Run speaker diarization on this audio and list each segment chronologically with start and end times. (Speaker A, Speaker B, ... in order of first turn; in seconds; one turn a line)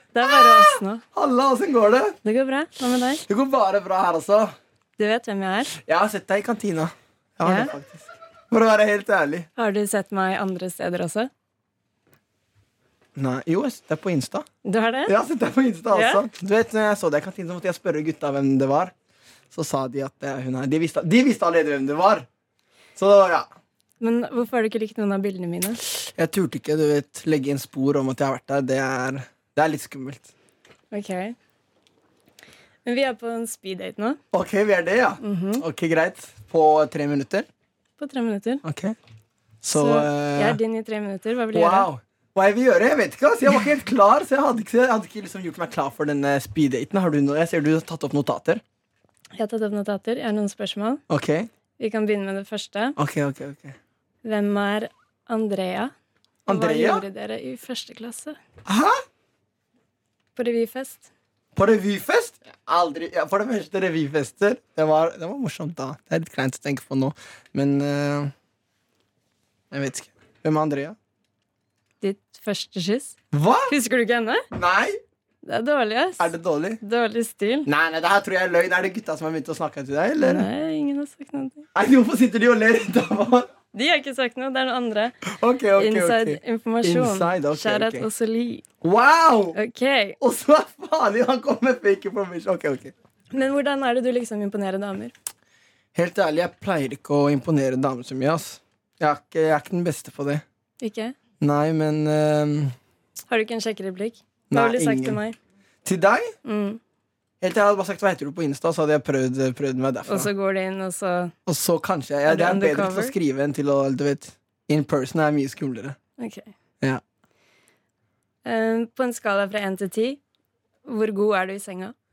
Speaker A: 0.1-1.0
Speaker B: 0.2-2.2
Speaker A: 2.2-3.2
Speaker B: 3.3-4.5
Speaker A: 5.0-5.7
Speaker B: 5.8-9.5
Speaker A: 7.4-7.7
Speaker A: 9.6-11.3
Speaker B: 13.2-14.5
Speaker A: 14.7-15.2
Speaker B: 15.1-18.9
Speaker A: 15.9-16.2
Speaker B: 19.5-22.3
Speaker B: 23.0-23.5
Speaker A: 24.0-25.8
Speaker B: 26.1-30.3
Speaker A: 30.9-31.4
Speaker A: 32.9-34.2
Speaker B: 34.3-37.5
Speaker A: 35.2-35.6
Speaker A: 38.0-38.6
Speaker B: 38.6-39.0
Speaker B: 39.6-40.6
Speaker A: 39.7-41.9
Speaker B: 41.5-48.6
Speaker A: 49.4-51.0
Speaker B: 51.1-51.5
Speaker A: 51.8-53.0
Speaker B: 53.0-53.8
Speaker A: 54.2-55.9
Speaker B: 56.5-57.1
Speaker A: 56.5-58.4
Speaker B: 58.7-59.0
Speaker A: 60.4-61.1
Speaker B: 61.5-68.3
Speaker B: 69.7-71.0
Speaker A: 72.0-73.2
Speaker B: 73.3-73.8
Speaker A: 73.7-74.5
Speaker B: 74.5-75.0
Speaker A: 75.5-77.7
Speaker B: 76.2-76.8
Speaker B: 77.7-80.5
Speaker A: 80.2-81.6
Speaker B: 81.8-83.5
Speaker A: 83.7-85.2
Speaker B: 85.3-88.1
Speaker A: 85.8-88.7
Speaker B: 88.8-89.6
Speaker A: 89.5-90.2
Speaker B: 90.2-92.9
Speaker A: 93.3-95.1
Speaker B: 96.0-100.4
Speaker A: 100.8-101.2
Speaker B: 101.4-102.8
Speaker A: 103.3-105.4
Speaker B: 104.5-105.2
Speaker B: 105.8-106.3
Speaker A: 106.5-106.8
Speaker B: 107.4-110.3
Speaker A: 110.1-111.3
Speaker B: 111.5-116.0
Speaker A: 112.3-113.1
Speaker A: 116.2-116.5
Speaker A: 118.5-120.2
Speaker A: 120.9-121.9